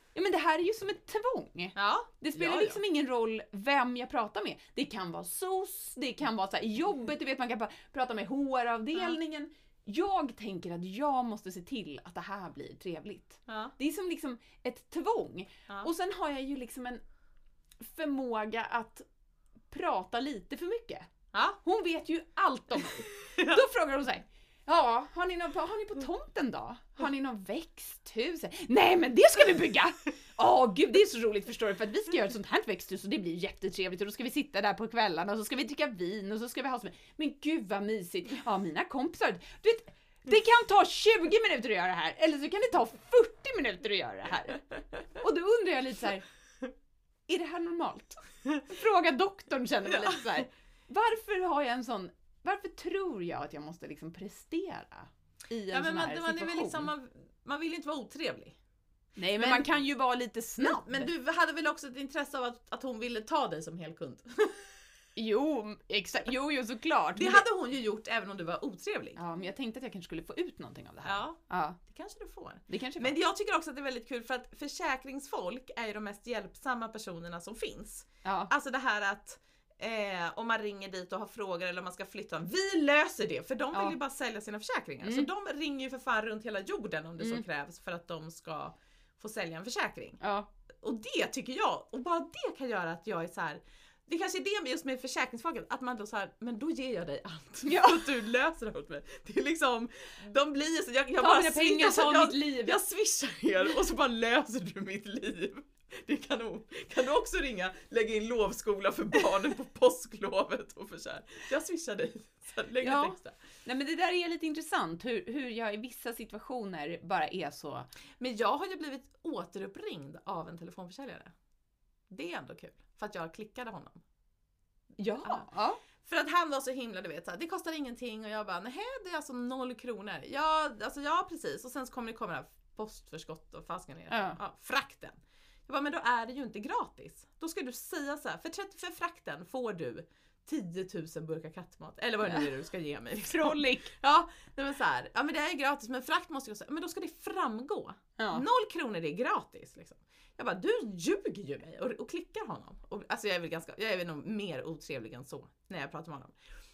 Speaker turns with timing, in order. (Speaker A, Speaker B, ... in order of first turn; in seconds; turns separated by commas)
Speaker A: 0.1-17.0, Speaker B: 1.8-2.8, Speaker B: 13.5-13.7, Speaker A: 17.8-19.1, Speaker A: 19.7-21.1, Speaker B: 21.3-21.6, Speaker A: 21.6-44.6, Speaker B: 23.3-23.6, Speaker A: 45.1-46.2, Speaker A: 47.3-56.9, Speaker B: 49.9-50.3, Speaker B: 55.7-58.6, Speaker A: 59.2-61.1, Speaker B: 59.4-59.7, Speaker B: 60.6-64.7, Speaker A: 65.2-67.5, Speaker B: 67.2-69.2, Speaker A: 69.2-71.8, Speaker B: 71.0-90.2, Speaker A: 72.7-73.2, Speaker A: 78.2-78.5, Speaker A: 85.0-85.3, Speaker A: 87.2-87.4, Speaker A: 90.2-90.5, Speaker B: 90.8-113.4, Speaker A: 97.7-98.1, Speaker A: 101.2-102.8, Speaker A: 112.8-117.9, Speaker B: 118.2-121.3, Speaker B: 122.1-124.0, Speaker A: 125.0-125.8, Speaker B: 125.2-125.5, Speaker B: 126.0-156.3, Speaker A: 134.1-134.4, Speaker A: 143.3-143.9, Speaker A: 148.2-148.4